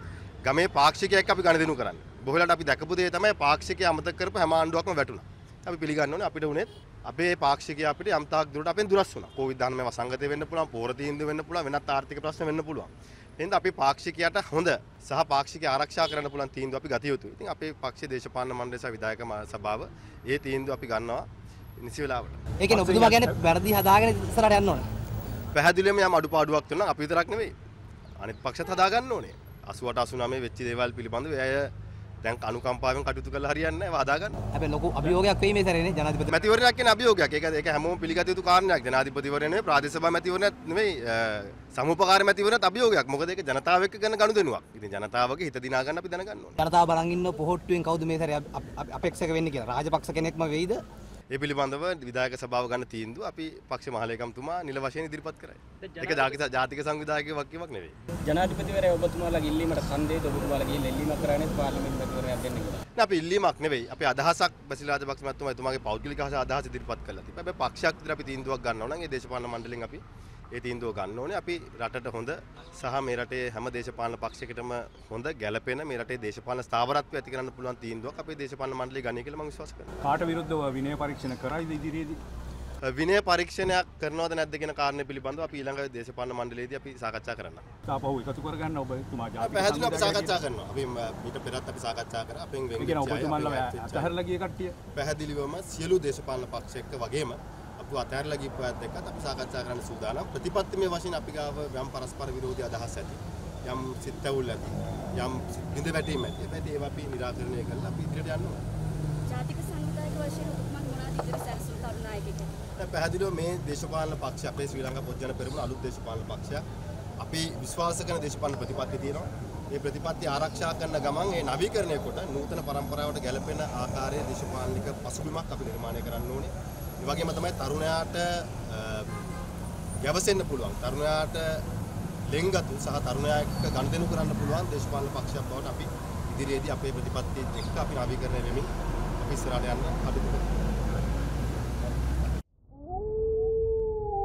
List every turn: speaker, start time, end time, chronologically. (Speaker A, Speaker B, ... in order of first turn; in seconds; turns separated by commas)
Speaker A: 0.5-21.3, Speaker A: 21.8-22.4, Speaker B: 22.6-24.9, Speaker C: 22.7-23.3, Speaker A: 25.5-27.5, Speaker A: 28.2-31.7, Speaker A: 32.2-34.4, Speaker B: 34.5-36.4, Speaker A: 36.3-46.6, Speaker B: 46.6-50.8, Speaker A: 51.3-58.0, Speaker D: 55.8-56.4, Speaker D: 58.2-62.9, Speaker A: 63.0-70.0, Speaker A: 70.5-80.0, Speaker C: 80.0-82.2, Speaker A: 82.8-87.7, Speaker C: 87.9-90.3, Speaker A: 89.4-94.1, Speaker C: 92.8-94.8, Speaker A: 94.9-108.6, Speaker E: 109.3-112.6, Speaker A: 112.8-116.6, Speaker A: 117.2-129.1, Speaker A: 130.0-131.6, Speaker A: 132.3-140.6